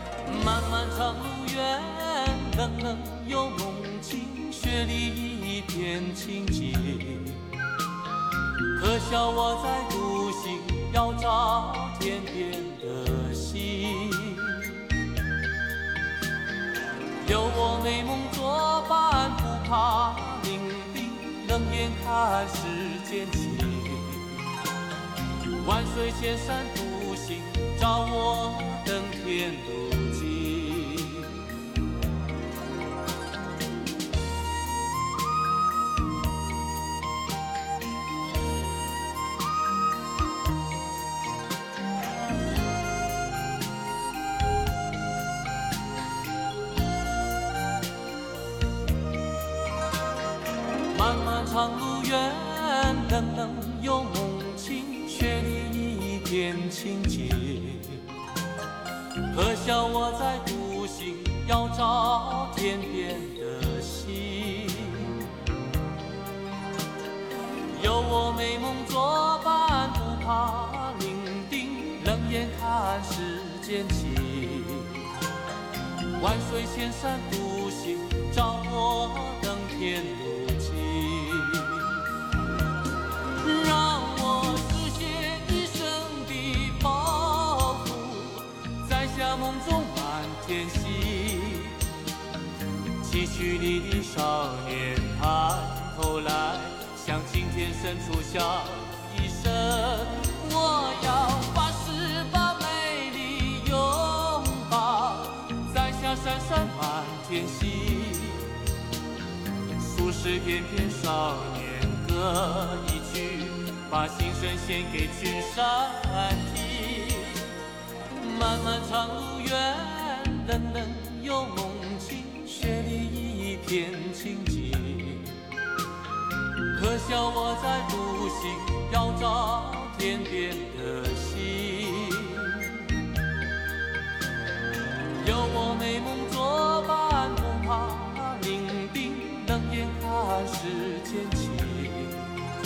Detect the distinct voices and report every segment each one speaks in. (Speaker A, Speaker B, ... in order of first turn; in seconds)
Speaker A: 0.2-7.4, 8.7-14.7, 17.2-24.4, 25.6-31.4, 50.9-58.0, 59.3-65.2, 67.7-75.0, 76.2-82.0, 83.4-91.8, 93.0-108.5, 109.8-117.5, 118.2-125.4, 126.7-132.8, 135.2-142.3